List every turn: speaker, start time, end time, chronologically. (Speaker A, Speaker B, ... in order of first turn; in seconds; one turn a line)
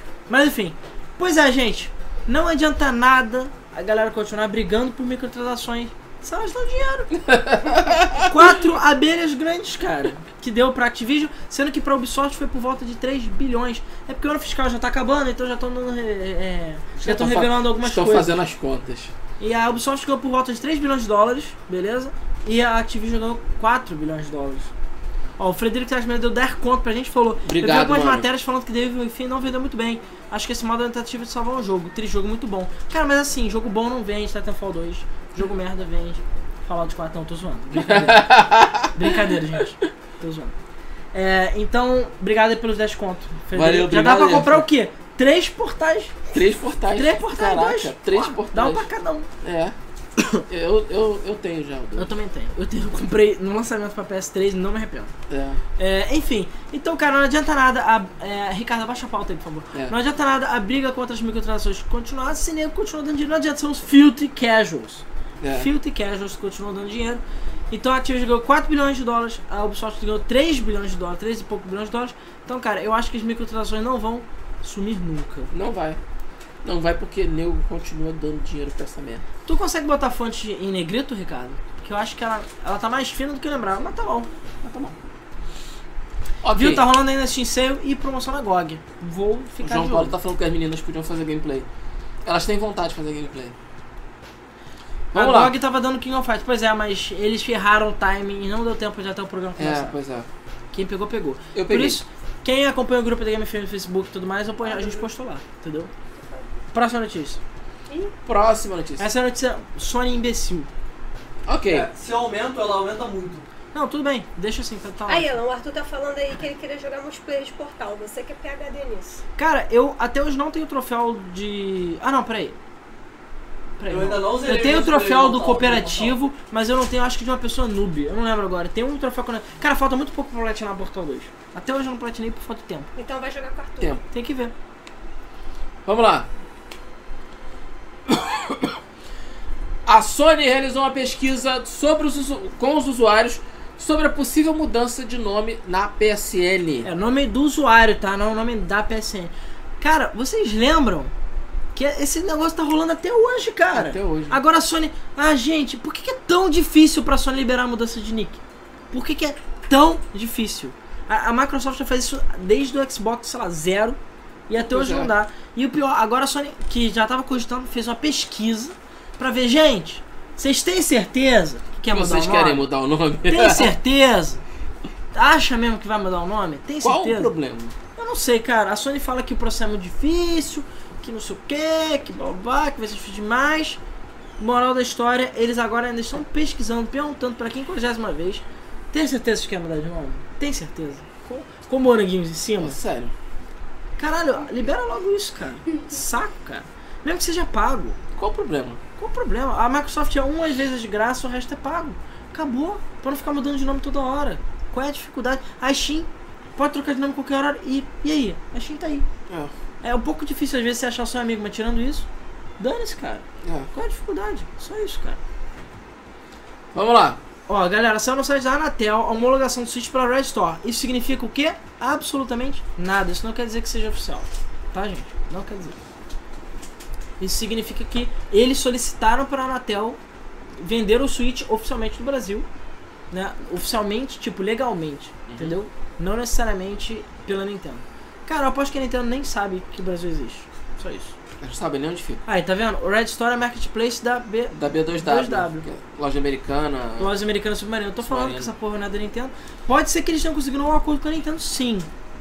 Speaker A: 0.3-7.2
Speaker B: 7.3-8.2
Speaker A: 7.7-18.4
Speaker B: 17.0-19.1
Speaker A: 19.4-24.7
Speaker A: 25.4-40.5
Speaker B: 27.4-28.3
Speaker B: 37.7-39.2
Speaker A: 41.1-46.2
Speaker B: 43.5-44.7
Speaker B: 46.3-48.9
Speaker A: 46.9-49.3
Speaker B: 49.4-49.8
Speaker A: 50.2-50.4
Speaker B: 50.5-52.1
Speaker A: 52.0-55.1
Speaker B: 55.3-55.6
Speaker A: 55.8-75.5
Speaker B: 65.4-65.7
Speaker B: 75.5-76.0
Speaker B: 76.6-79.2
Speaker A: 79.5-84.3
Speaker B: 84.6-85.0
Speaker B: 86.4-86.8
Speaker A: 86.5-90.2
Speaker B: 89.6-91.7
Speaker B: 92.2-93.5
Speaker B: 95.1-95.6
Speaker A: 95.1-100.0
Speaker B: 99.6-100.3
Speaker A: 100.7-105.9
Speaker B: 101.5-102.0
Speaker C: 104.6-105.1
Speaker C: 106.2-106.5
Speaker A: 106.7-107.4
Speaker C: 107.9-108.1
Speaker B: 108.2-109.1
Speaker A: 109.0-110.7
Speaker B: 111.5-111.9
Speaker D: 111.7-113.5
Speaker A: 113.7-115.3
Speaker C: 115.1-119.2
Speaker A: 119.4-122.6
Speaker A: 123.8-132.9
Speaker D: 123.9-126.2
Speaker C: 133.0-134.0
Speaker A: 134.1-134.5
Speaker B: 135.8-136.3
Speaker B: 138.1-138.7
Speaker B: 139.9-146.9
Speaker A: 146.8-151.1
Speaker A: 151.8-158.4
Speaker B: 153.7-154.4
Speaker A: 158.9-164.0
Speaker A: 164.5-172.7
Speaker B: 164.7-165.1
Speaker B: 171.9-173.7
Speaker A: 173.3-174.4
Speaker A: 175.1-177.3
Speaker B: 176.8-177.8
Speaker A: 177.9-183.8
Speaker A: 184.4-192.8
Speaker B: 192.6-193.1
Speaker A: 194.0-198.0
Speaker B: 198.2-198.8
Speaker A: 199.0-209.1
Speaker B: 209.3-209.5
Speaker A: 209.8-212.1
Speaker A: 212.6-215.2
Speaker B: 213.4-213.7
Speaker B: 216.7-217.2
Speaker A: 217.5-225.8
Speaker A: 227.2-230.0
Speaker A: 230.6-232.5
Speaker A: 233.1-241.1
Speaker B: 235.3-235.6
Speaker B: 241.4-242.2
Speaker A: 242.2-245.7
Speaker B: 244.5-247.2
Speaker A: 247.0-251.9
Speaker B: 248.0-248.5